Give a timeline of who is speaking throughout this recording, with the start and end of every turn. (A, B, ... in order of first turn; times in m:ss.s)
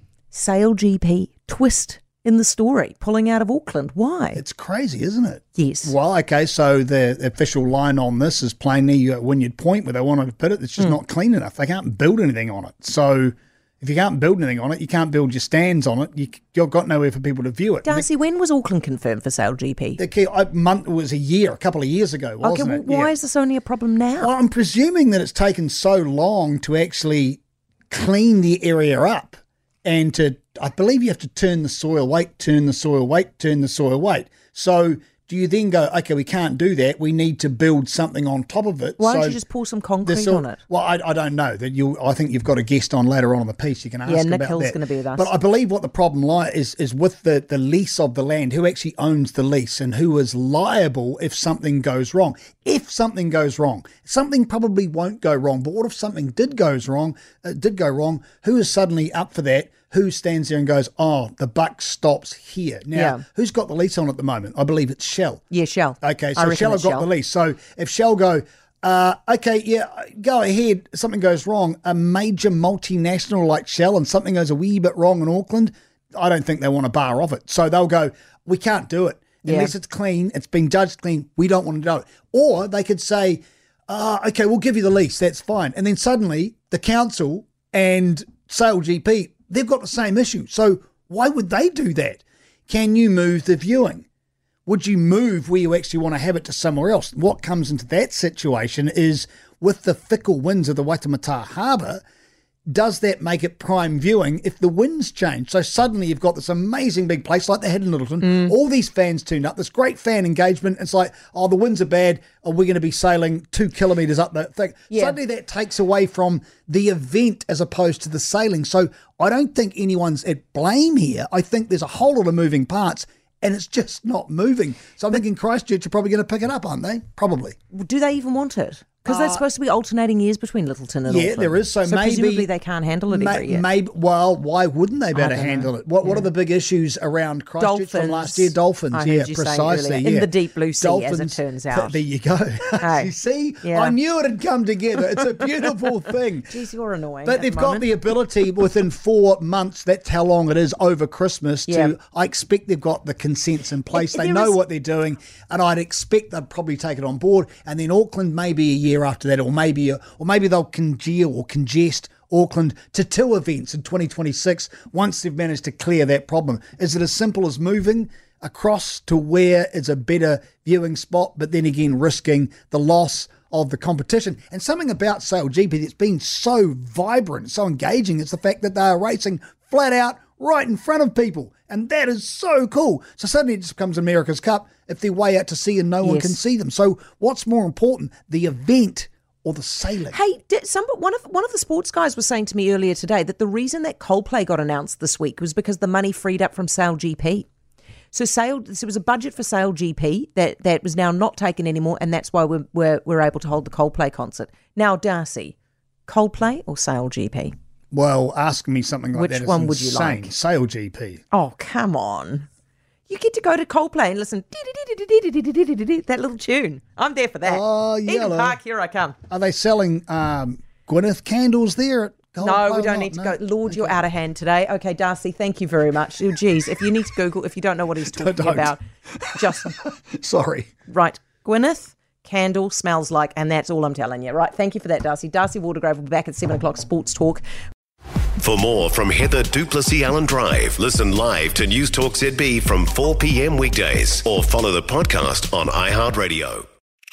0:00.3-0:04.4 A
0:04.4-0:18.1 B
0:05.6-0:05.9 A
0:17.8-0:20.0 A
0:20.0-0:23.1 B
0:22.4-0:24.3 A
0:24.2-0:39.4 B
0:39.0-0:40.6 A
0:40.0-1:05.4 B
0:44.1-0:45.3 A
1:02.9-1:03.2 A
1:05.5-1:07.1 A
1:06.0-1:34.0 B
1:19.4-1:19.7 A
1:34.7-1:42.0 B
1:42.7-2:07.6 B
1:54.9-1:55.2 A
2:07.7-2:13.6 A
2:09.1-2:09.4 B
2:11.1-2:12.5 B
2:13.1-2:26.5 B
2:15.1-2:16.2 A
2:17.6-2:22.0 A
2:22.8-2:23.1 A
2:23.6-2:23.9 A
2:26.5-2:27.9 A
2:27.2-3:10.2 B
2:31.7-2:31.9 A
2:33.9-2:34.5 A
3:06.0-3:06.4 A
3:10.1-3:17.5 A
3:18.1-3:25.6 A
3:26.1-3:27.5 A
3:27.9-3:31.2 B
3:29.1-3:30.3 A
3:31.3-3:32.5 A
3:33.1-3:39.2 A
3:37.4-3:38.6 B
3:39.3-3:44.0 B
3:42.4-3:48.8 A
3:48.1-3:50.7 B
3:49.4-3:49.8 A
3:50.9-3:57.4 A
3:58.4-4:06.6 C